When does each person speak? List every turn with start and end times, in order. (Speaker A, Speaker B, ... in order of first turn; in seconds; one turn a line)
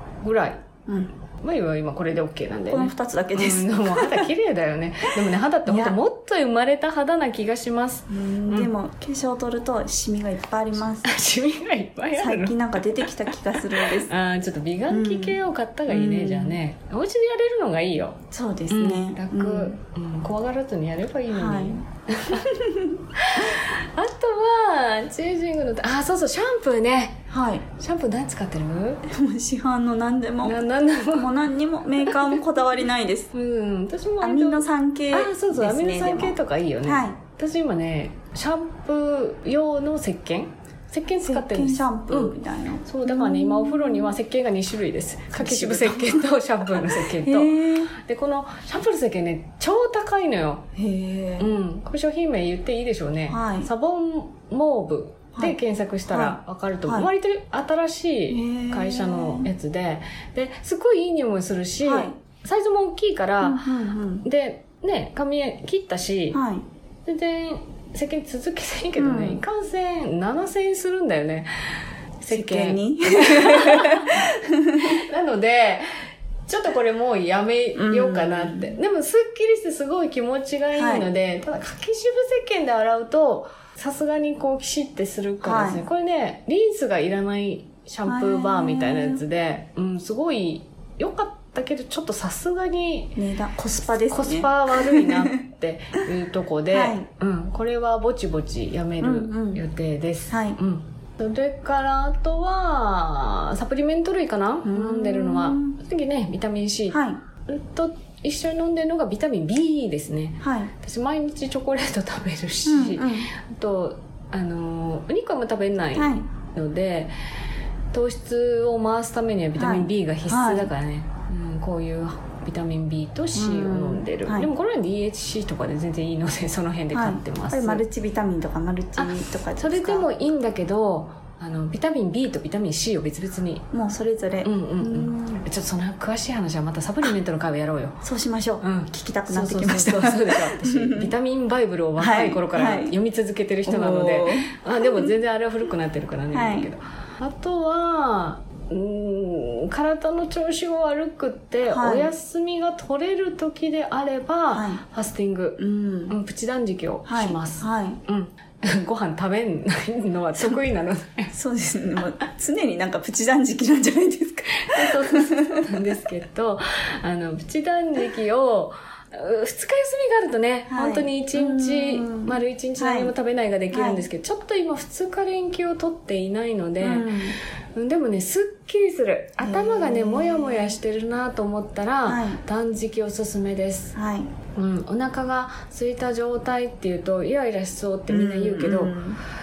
Speaker A: 0.2-0.7
Speaker B: 0.9-1.1
Speaker A: 1.4-8.7
Speaker B: 2.7-4.3
Speaker B: 5.3-6.0
Speaker B: 8.1-11.2
Speaker A: 11.0-13.1
Speaker B: 12.2-14.1
Speaker A: 13.7-22.5
Speaker B: 14.9-16.6
Speaker B: 18.3-19.8
Speaker B: 21.3-23.0
Speaker A: 23.1-29.1
Speaker B: 27.3-27.7
Speaker B: 29.1-33.3
Speaker A: 30.4-31.3
Speaker A: 32.0-32.3
Speaker A: 33.3-50.7
Speaker B: 34.2-37.2
Speaker B: 41.2-44.1
Speaker B: 45.3-47.9
Speaker B: 50.7-51.5
Speaker A: 51.4-63.7
Speaker B: 53.3-53.7
Speaker B: 56.1-57.1
Speaker B: 58.3-59.5
Speaker B: 61.8-62.2
Speaker B: 63.4-64.3
Speaker A: 64.2-66.4
Speaker B: 66.3-66.7
Speaker A: 67.1-74.3
Speaker B: 69.0-69.4
Speaker B: 72.3-75.0
Speaker A: 74.8-76.0
Speaker A: 76.5-93.2
Speaker B: 77.8-78.8
Speaker B: 80.8-81.1
Speaker B: 85.4-85.8
Speaker B: 88.1-89.2
Speaker B: 93.2-95.3
Speaker A: 94.1-117.1
Speaker B: 96.7-97.1
Speaker B: 99.0-99.6
Speaker B: 100.3-100.6
Speaker B: 104.7-105.8
Speaker B: 106.9-107.2
Speaker B: 110.4-110.7
Speaker B: 112.7-113.3
Speaker B: 116.0-116.3
Speaker A: 117.9-127.8
Speaker B: 119.6-120.7
Speaker B: 123.3-124.5
Speaker B: 126.9-130.1
Speaker A: 129.0-133.7
Speaker B: 133.7-135.4
Speaker A: 134.4-138.0
Speaker B: 138.0-141.1
Speaker A: 138.6-161.3
Speaker B: 142.0-143.0
Speaker B: 143.7-145.1
Speaker B: 146.3-146.7
Speaker B: 151.7-152.1
Speaker B: 154.5-154.8
Speaker B: 155.6-156.2
Speaker B: 157.1-158.0
Speaker B: 161.3-165.9
Speaker A: 164.6-183.9
Speaker B: 170.7-173.1
Speaker B: 173.7-174.1
Speaker B: 176.8-177.4
Speaker B: 179.4-180.8
Speaker B: 182.1-182.4
Speaker B: 183.9-184.3
Speaker A: 184.6-189.0
Speaker B: 188.1-189.2